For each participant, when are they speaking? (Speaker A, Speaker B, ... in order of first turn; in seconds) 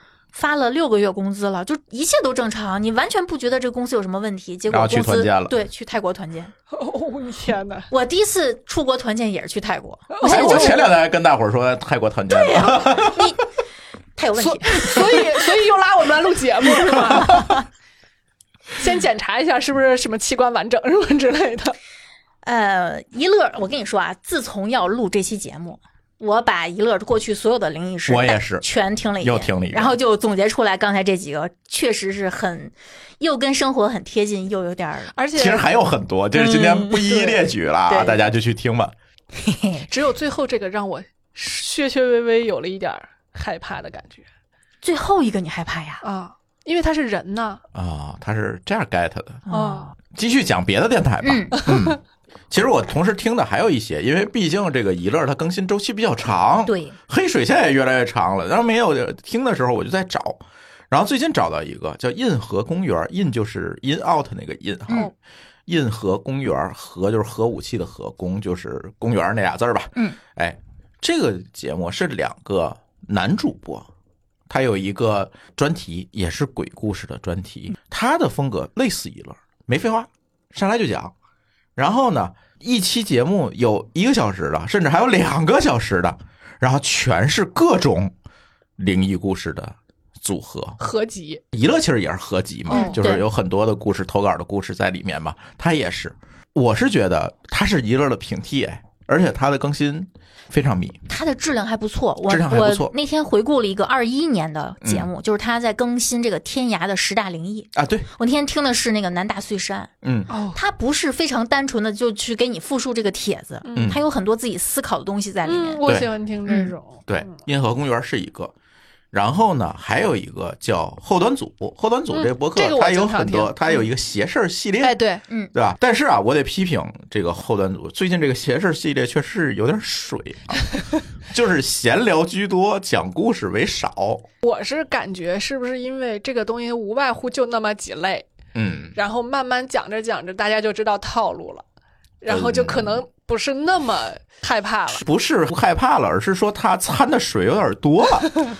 Speaker A: 0.3-6.5, 7.9-10.8, 12.3-13.4, 14.2-15.2, 22.4-35.1, 37.9-38.2, 39.4-39.9, 44.8-46.0, 49.5-49.9, 51.2-51.6, 56.7-57.0, 92.7-93.2, 101.1-109.9, 110.5-115.8, 116.5-116.8
Speaker B: 4.7-5.5, 10.2-13.3, 28.1-28.6, 29.2-30.0, 35.3-38.9, 47.7-49.5, 50.1-65.1, 65.7-73.9, 74.5-81.1, 81.8-88.1, 88.8-90.8, 91.5-101.0, 102.2-102.9, 104.8-105.1, 107.7-108.1, 110.0-110.3, 113.7-114.0, 115.8-116.1, 117.1-118.5, 119.1-125.0, 125.5-130.7, 131.3-134.2, 138.5-138.9, 142.2-143.1, 144.9-148.3
Speaker C: 6.7-7.9, 10.1-10.8, 14.4-17.6, 18.8-21.8, 35.1-35.7, 36.4-37.4, 39.9-44.3, 46.0-47.6, 49.5-49.9, 51.6-51.9, 90.8-91.4, 92.7-93.0, 110.3-110.6, 113.6-114.0, 115.4-117.2, 122.1-123.9, 124.8-125.2, 134.4-138.2, 138.9-141.6, 142.2-145.0